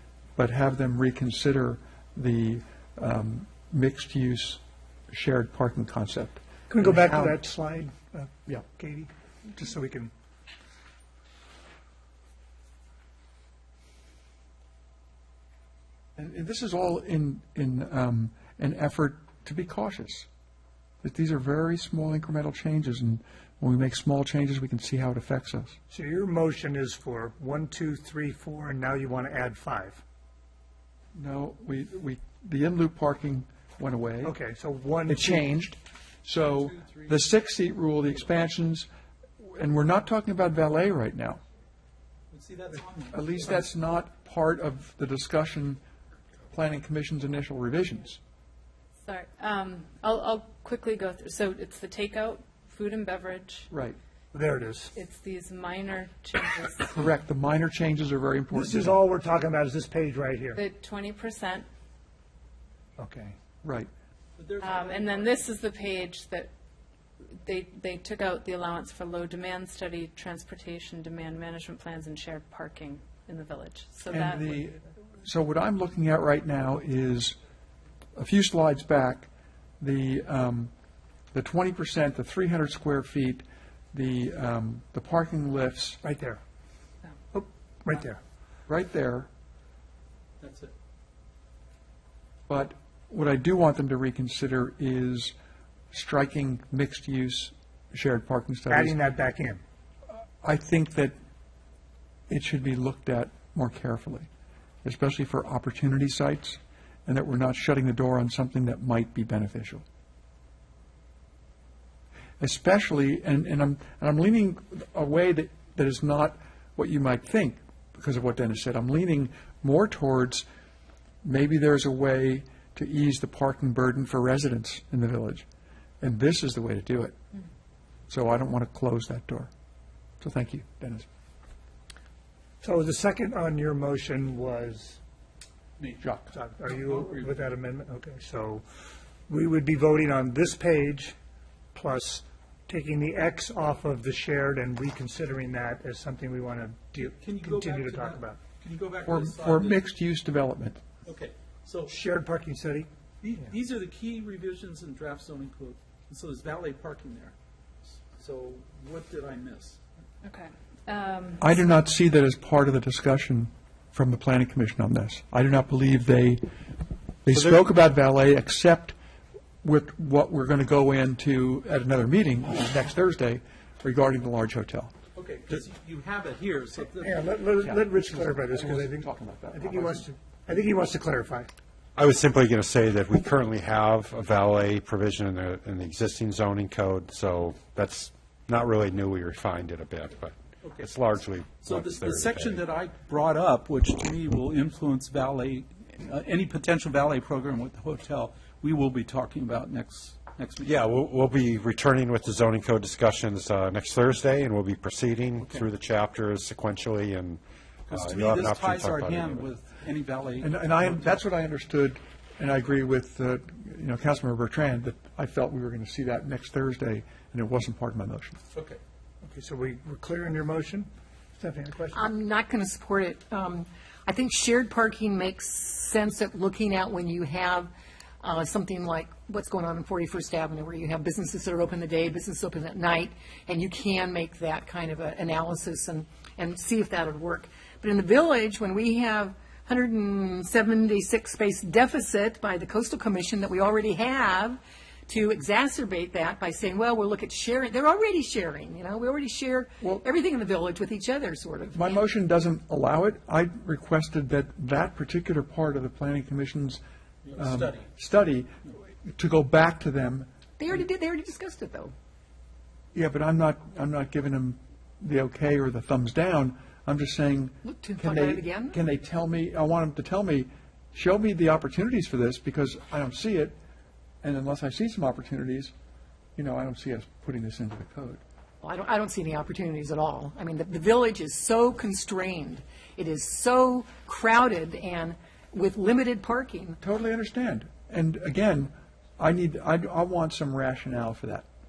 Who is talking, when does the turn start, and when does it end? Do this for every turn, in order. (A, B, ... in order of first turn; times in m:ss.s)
0:00.4-0:07.4 A
0:16.2-0:20.3 A
0:21.0-0:25.8 A
0:26.1-0:29.9 B
0:31.2-0:34.4 A
0:34.4-0:35.2 B
0:35.1-0:38.9 A
0:36.4-0:37.2 C
0:39.4-0:41.4 A
0:42.3-0:43.2 C
0:43.1-0:45.8 A
0:46.5-0:48.2 A
0:49.0-0:53.7 D
0:53.7-0:54.0 A
0:54.9-0:57.0 D
0:56.9-0:59.0 A
0:59.8-1:00.1 B
1:00.6-1:01.7 D
1:03.6-1:03.9 A
1:04.4-1:05.6 C
1:04.6-1:06.5 D
1:07.3-1:14.6 D
1:14.1-1:17.4 A
1:18.2-1:19.3 A
1:19.8-1:20.7 A
1:21.3-1:26.0 A
1:28.7-1:29.3 A
1:30.4-1:30.7 C
1:32.5-1:35.3 A
1:35.9-1:39.0 A
1:40.4-1:41.2 A
1:42.3-1:44.3 A
1:44.8-1:49.8 A
1:52.4-2:00.4 A
2:01.2-2:05.4 A
2:06.0-2:07.2 A
2:08.1-2:09.5 A
2:10.2-2:11.1 A
2:12.8-2:14.8 B
2:15.8-2:17.6 C
2:17.6-2:18.6 B
2:19.3-2:21.0 B
2:21.8-2:22.1 B
2:22.7-2:26.9 B
2:26.9-2:29.8 C
2:27.6-2:28.1 B
2:29.1-2:30.8 A
2:31.1-2:32.0 C
2:31.9-2:32.7 B
2:33.2-2:37.3 C
2:38.2-2:39.8 C
2:40.2-2:41.6 D
2:41.4-2:46.5 A
2:47.2-2:49.0 A
2:49.6-2:54.9 A
2:55.2-2:57.9 C
2:57.0-2:57.3 B
2:57.6-3:00.1 A
3:00.6-3:01.4 B
3:02.0-3:12.6 E
3:10.6-3:10.9 C
3:11.6-3:20.8 C
3:20.7-3:27.4 E
3:25.4-3:25.7 C
3:27.9-3:31.1 C
3:27.9-3:29.5 E
3:30.4-3:38.4 A
3:38.5-3:38.8 C
3:39.4-3:40.8 B
3:41.9-3:47.7 F
3:48.2-4:12.0 F
4:11.7-4:16.8 A
4:17.2-4:17.9 C
4:17.4-4:20.3 A
4:20.6-4:21.9 F
4:22.9-4:33.6 A
4:27.6-4:28.8 F
4:34.2-4:35.7 A
4:36.4-4:38.2 A
4:38.6-4:46.8 F
4:46.8-4:51.5 A